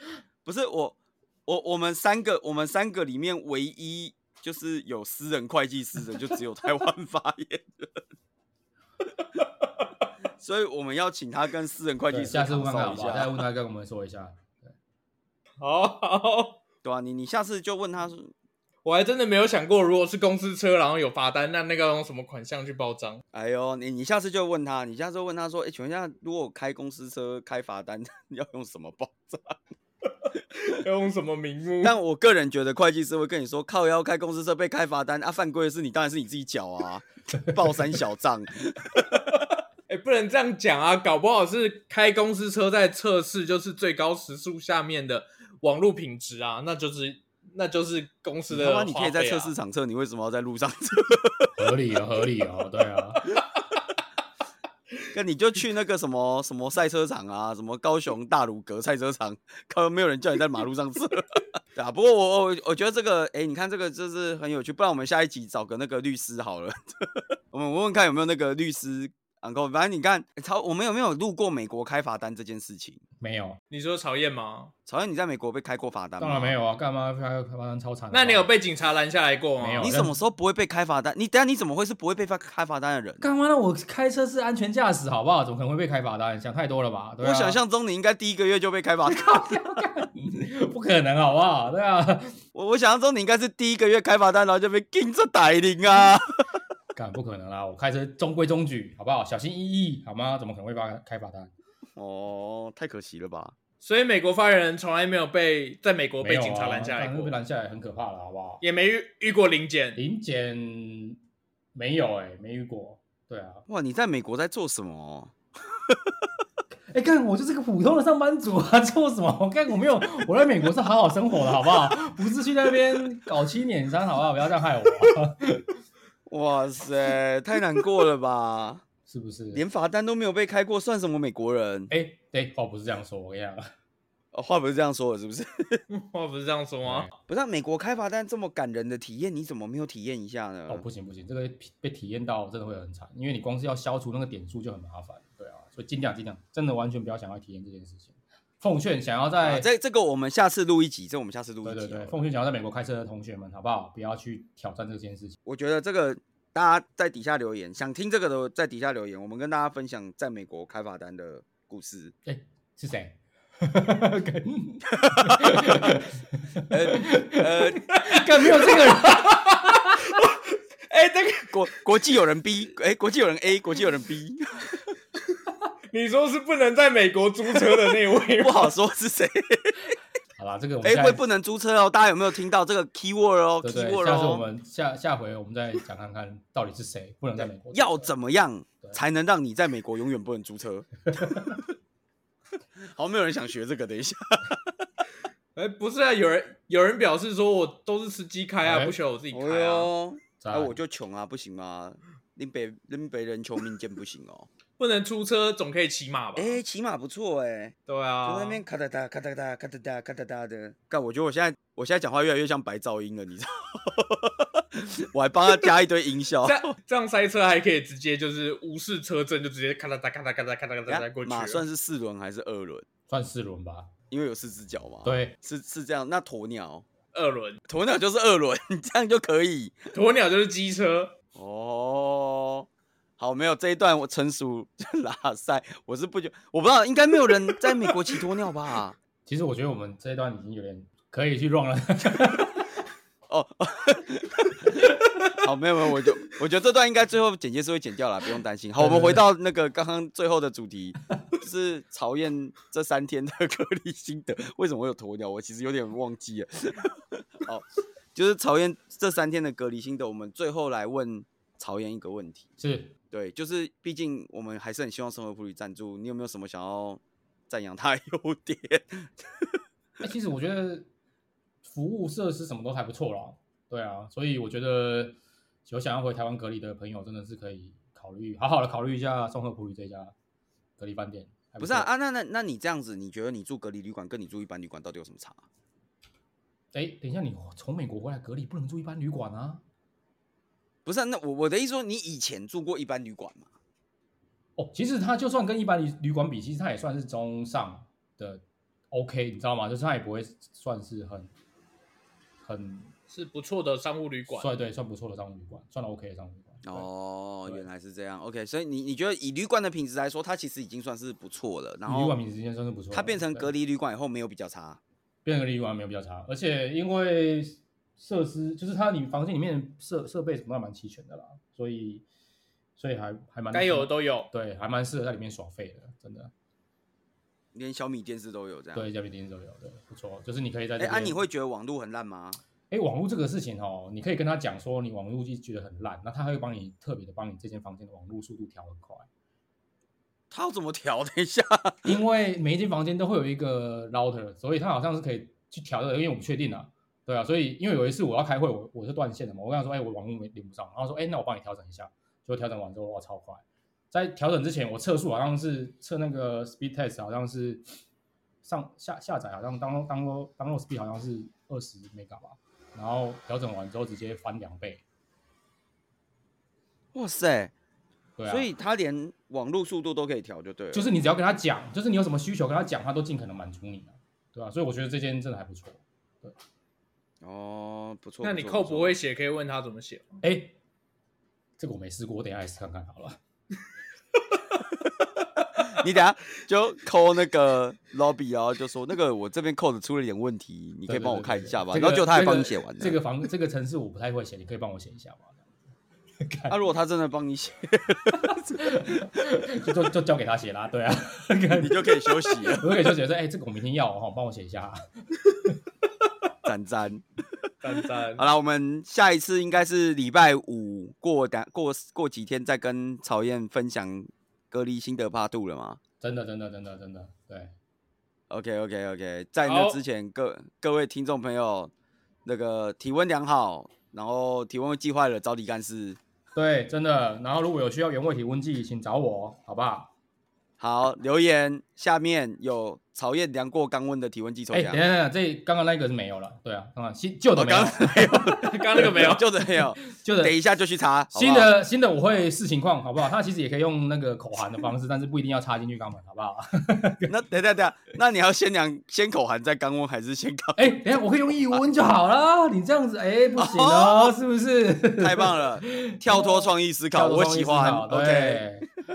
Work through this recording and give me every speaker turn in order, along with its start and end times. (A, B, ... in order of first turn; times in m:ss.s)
0:00.4-0:08.0 A
0:10.4-0:13.4 A
0:12.1-0:14.7 B
0:15.6-0:16.6 C
0:16.8-0:18.3 A
0:18.8-0:23.2 C
0:23.3-0:29.6 A
0:30.5-0:31.9 C
0:31.8-0:39.2 A
0:39.9-0:49.6 C
0:48.5-0:51.5 A
0:51.6-0:53.2 B
0:55.1-1:13.0 A
1:13.2-1:13.6 B
1:13.7-1:14.7 C
1:14.9-1:16.6 A
1:16.2-1:18.5 B
1:18.1-1:19.9 C
1:19.6-1:20.1 B
1:19.8-1:23.3 A
1:23.2-1:27.6 B
1:27.2-1:29.7 A
1:29.1-1:32.4 B
1:32.6-1:36.4 A
1:37.0-1:41.5 B
1:42.0-1:43.5 A
1:43.8-1:47.3 C
1:46.2-1:48.6 B
1:48.6-1:50.0 C
1:50.0-1:51.2 B
1:51.8-1:53.6 B
1:53.7-1:55.3 A
1:56.9-2:05.7 B
2:06.3-2:08.8 A
2:09.1-2:09.6 B
2:09.5-2:11.9 A
2:11.9-2:13.7 B
2:14.3-2:15.8 A
2:15.9-2:17.1 C
2:16.8-2:17.1 B
2:17.3-2:20.8 A
2:20.7-2:29.7 B
2:29.4-2:32.2 A
2:31.6-2:35.4 B
2:35.5-2:42.1 A
2:42.2-2:50.1 B
2:44.9-2:46.0 A
2:46.7-2:47.9 A
2:47.9-2:51.5 C
2:51.4-2:54.9 A
2:55.9-2:58.7 C
2:58.4-3:00.0 A
3:00.4-3:01.2 B
3:00.8-3:04.4 A
3:03.6-3:08.1 B
3:07.4-3:11.6 A
3:11.1-3:11.6 B
3:12.8-3:14.6 A
3:15.6-3:19.9 C
3:18.6-3:19.0 B
3:19.3-3:24.5 A
3:20.4-3:20.8 B
3:24.8-3:26.6 C
3:26.4-3:36.7 A
3:27.9-3:28.6 C
3:36.4-3:41.6 C
3:40.9-3:42.8 A
3:43.1-3:43.9 B
3:44.1-3:46.8 A
3:45.0-3:45.3 B
3:47.1-3:47.6 C
3:47.7-3:49.9 A
3:49.9-3:51.1 C
3:51.4-3:52.7 A
3:53.2-3:59.0 A
3:59.3-4:02.7 B
4:03.3-4:22.5 A
4:08.8-4:09.2 B
4:22.6-4:22.9 B
4:23.1-4:29.6 A
4:30.0-4:30.9 B
4:31.6-4:40.1 B
4:40.8-4:41.9 B
4:41.6-4:45.4 A
4:46.7-4:49.6 B
4:50.8-4:53.5 A
4:54.6-5:01.3 B
5:02.4-5:02.9 B
5:03.1-5:04.5 C
5:04.3-5:06.9 B
5:06.6-5:12.2 A
5:11.9-5:13.5 B
5:12.9-5:14.8 A
5:15.2-5:22.0 B
5:22.8-5:26.3 B
5:23.5-5:24.3 C
5:27.5-5:28.9 A
5:28.7-5:31.2 B
5:30.8-5:32.4 A
5:32.7-5:39.1 B
5:40.3-5:41.9 A
5:41.8-5:57.7 B
5:58.4-6:04.8 B
6:06.9-6:07.5 A
6:08.2-6:08.5 B
6:08.3-6:10.9 A
6:10.7-6:16.4 B
6:17.2-6:19.0 A
6:18.2-6:20.2 C
6:20.2-6:20.6 B
6:21.6-6:23.2 B
6:25.6-6:33.0 A
6:30.9-6:35.4 B
6:36.2-6:36.6 B
6:36.5-6:39.1 A
6:38.1-6:45.6 B
6:41.5-6:42.9 A
6:46.4-6:47.0 A
6:47.6-6:48.3 C
6:48.2-6:55.8 A
6:56.0-6:57.5 B
6:58.3-7:01.7 A
6:59.4-6:59.8 C
7:02.2-7:06.0 A
7:06.4-7:09.9 B
7:10.6-7:14.8 A
7:14.5-7:20.3 B
7:17.4-7:21.5 A
7:18.4-7:19.2 C
7:21.1-7:27.1 B
7:27.1-7:30.8 A
7:30.6-7:38.7 B
7:33.4-7:34.2 A
7:35.0-7:38.5 A